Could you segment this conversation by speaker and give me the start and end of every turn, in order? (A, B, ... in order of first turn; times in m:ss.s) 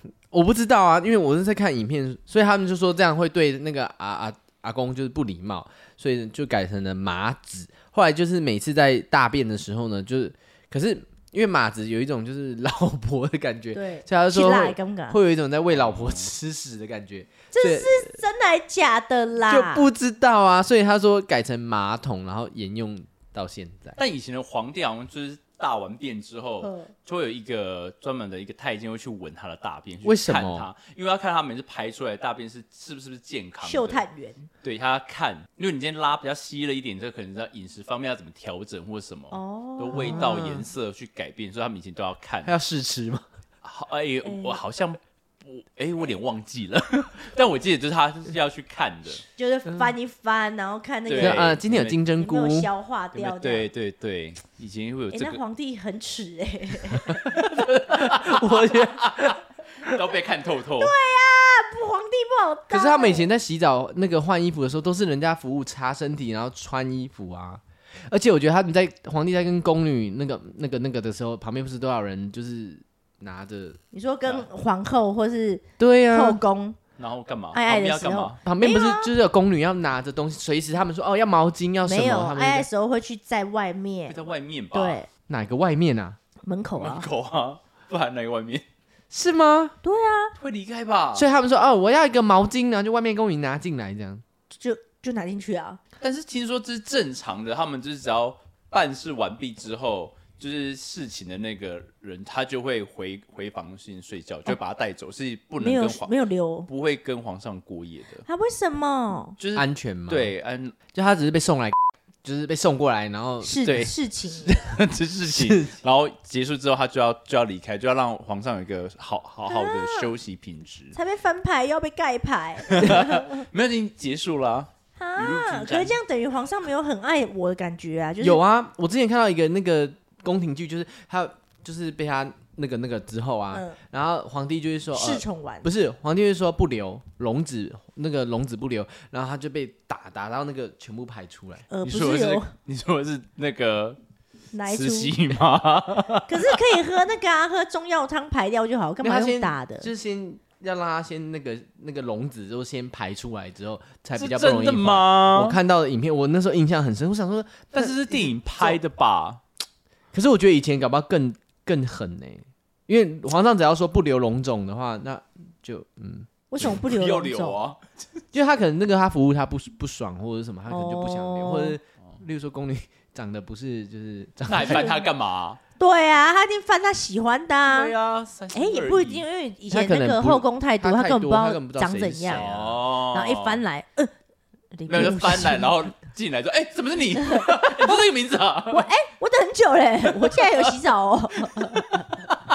0:00.3-0:18.2 A
0:13.7-0:15.2 B
0:15.7-0:16.3 C
0:17.5-0:19.9 B
0:19.5-0:24.0 A
0:24.0-0:34.0 C
0:26.6-0:26.9 B
0:30.0-0:30.7 A
0:33.6-0:34.5 B
0:34.6-0:42.5 C
0:39.3-0:40.3 B
0:39.9-0:40.7 A
0:42.4-0:43.2 A
0:43.6-0:49.2 C
0:44.2-0:44.6 B
0:49.4-0:51.5 B
0:51.1-0:52.0 C
0:51.2-0:52.7 A
0:52.1-0:53.7 B
0:53.1-0:55.4 C
0:55.1-0:57.3 B
0:57.3-1:00.9 C
0:57.4-0:59.4 A
1:00.8-1:03.3 B
1:02.7-1:13.8 A
1:13.9-1:16.8 B
1:15.8-1:16.4 A
1:17.0-1:18.4 C
1:17.5-1:19.1 B
1:18.4-1:22.7 A
1:21.8-1:24.2 B
1:24.1-1:25.0 C
1:24.7-1:25.1 B
1:25.3-1:26.2 A
1:26.4-1:27.1 B
1:26.8-1:28.6 C
1:29.1-1:29.8 A
1:29.8-1:30.3 B
1:30.4-1:31.2 C
1:31.1-1:34.2 A
1:34.5-1:35.8 B
1:36.0-1:46.1 C
1:45.6-1:46.7 B
1:46.7-1:48.2 C
1:48.2-1:49.4 B
1:49.4-1:50.8 C
1:49.5-1:50.3 A
1:50.9-1:53.6 A
1:53.4-1:54.7 B
1:53.6-2:01.0 C
1:55.3-1:55.7 A
1:59.5-2:00.1 B
2:00.9-2:03.4 B
2:02.7-2:06.0 C
2:05.0-2:08.4 B
2:08.2-2:21.7 A
2:13.5-2:13.8 B
2:14.9-2:15.7 B
2:21.7-2:22.5 B
2:21.8-2:24.0 C
2:24.5-2:25.2 B
2:24.7-2:26.6 C
2:26.3-2:29.9 B
2:29.0-2:38.8 A
2:34.2-2:35.6 C
2:37.7-2:39.4 C
2:40.1-2:46.3 A
2:46.5-2:47.6 B
2:46.6-2:48.2 C
2:48.3-2:55.0 A
2:50.7-2:51.8 B
2:54.5-2:55.6 C
2:54.6-2:55.0 B
2:55.8-2:57.9 B
2:57.7-2:59.2 C
2:58.5-3:02.4 B
2:59.7-3:02.8 A
3:02.3-3:03.6 C
3:03.1-3:04.1 B
3:04.7-3:05.8 B
3:04.9-3:08.9 C
3:08.7-3:12.1 B
3:10.2-3:10.7 C
3:11.4-3:12.0 C